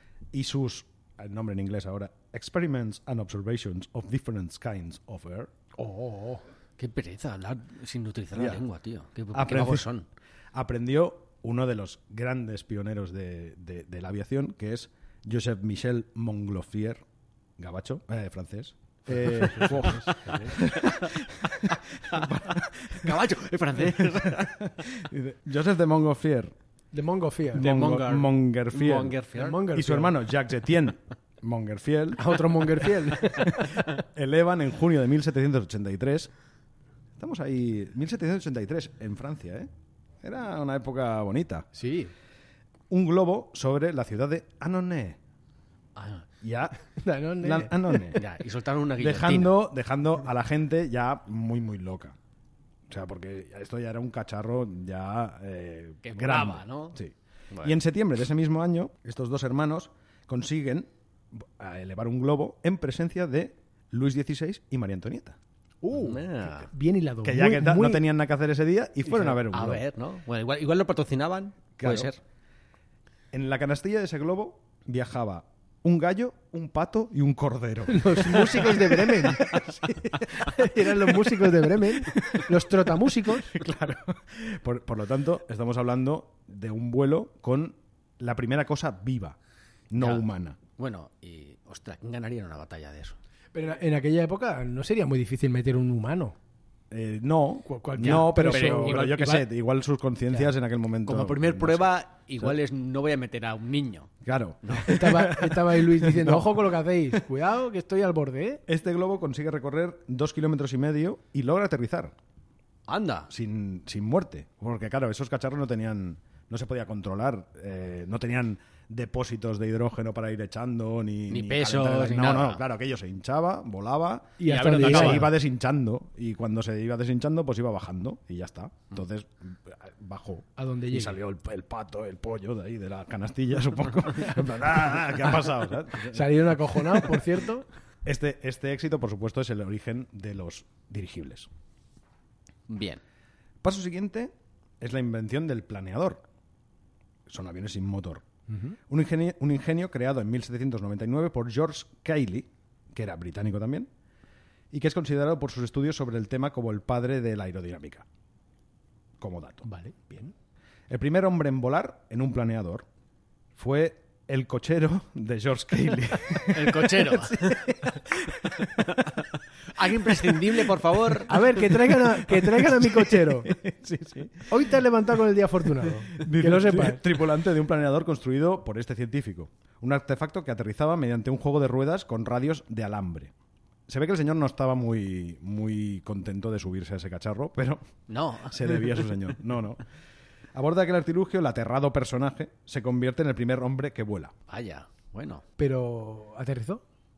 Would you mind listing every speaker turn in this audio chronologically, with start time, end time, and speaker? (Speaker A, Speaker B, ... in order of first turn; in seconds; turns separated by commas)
Speaker A: 0.3-5.5, Speaker B: 5.8-6.4, Speaker C: 6.8-10.1, Speaker A: 8.3-8.6, Speaker A: 9.3-9.9, Speaker A: 10.5-17.0, Speaker A: 17.6-23.2, Speaker B: 20.0-20.4, Speaker C: 20.2-20.5, Speaker C: 21.7-24.6, Speaker A: 23.8-26.6, Speaker B: 26.9-27.7, Speaker A: 27.5-32.4, Speaker C: 27.6-29.6, Speaker B: 29.4-30.2, Speaker B: 32.2-33.8, Speaker A: 33.5-36.3, Speaker A: 37.2-39.7, Speaker A: 40.2-41.7, Speaker B: 41.8-42.1, Speaker A: 42.9-45.2, Speaker C: 46.0-46.3, Speaker A: 46.4-46.8, Speaker B: 47.0-48.1, Speaker A: 47.4-48.2, Speaker C: 48.1-49.6, Speaker A: 49.0-52.2, Speaker A: 52.9-65.4, Speaker C: 56.0-57.0, Speaker C: 57.5-57.8, Speaker B: 65.8-68.1, Speaker C: 65.9-66.7, Speaker A: 67.2-69.8, Speaker C: 69.1-72.2, Speaker A: 71.8-72.1, Speaker A: 73.3-82.4, Speaker B: 77.9-83.5, Speaker A: 83.5-89.4, Speaker A: 89.9-90.6, Speaker C: 90.0-90.3, Speaker C: 90.8-93.2, Speaker B: 93.5-96.4, Speaker A: 96.9-102.6, Speaker B: 97.7-99.5, Speaker C: 98.0-99.1, Speaker C: 101.1-104.1, Speaker A: 104.2-107.2, Speaker C: 104.6-105.0, Speaker B: 104.9-108.6, Speaker A: 108.7-112.2, Speaker C: 112.9-113.3, Speaker A: 113.3-137.2, Speaker C: 121.3-122.6, Speaker B: 124.4-125.3, Speaker C: 124.4-125.3, Speaker B: 130.6-131.2, Speaker B: 136.1-137.7, Speaker A: 138.0-141.5, Speaker C: 142.7-143.0, Speaker A: 143.6-146.2, Speaker A: 147.3-148.3, Speaker B: 148.5-148.8, Speaker A: 148.9-153.9, Speaker A: 154.7-158.1, Speaker A: 159.2-159.7, Speaker B: 159.6-160.3, Speaker A: 160.9-162.9, Speaker A: 163.6-169.2, Speaker C: 166.5-167.7, Speaker C: 168.8-171.5, Speaker A: 169.8-174.8, Speaker B: 171.3-173.5, Speaker B: 174.5-177.1, Speaker A: 176.1-183.3, Speaker A: 183.9-187.8, Speaker C: 188.1-189.1, Speaker A: 188.4-189.8, Speaker A: 190.5-194.3, Speaker C: 194.5-195.4, Speaker B: 195.6-196.8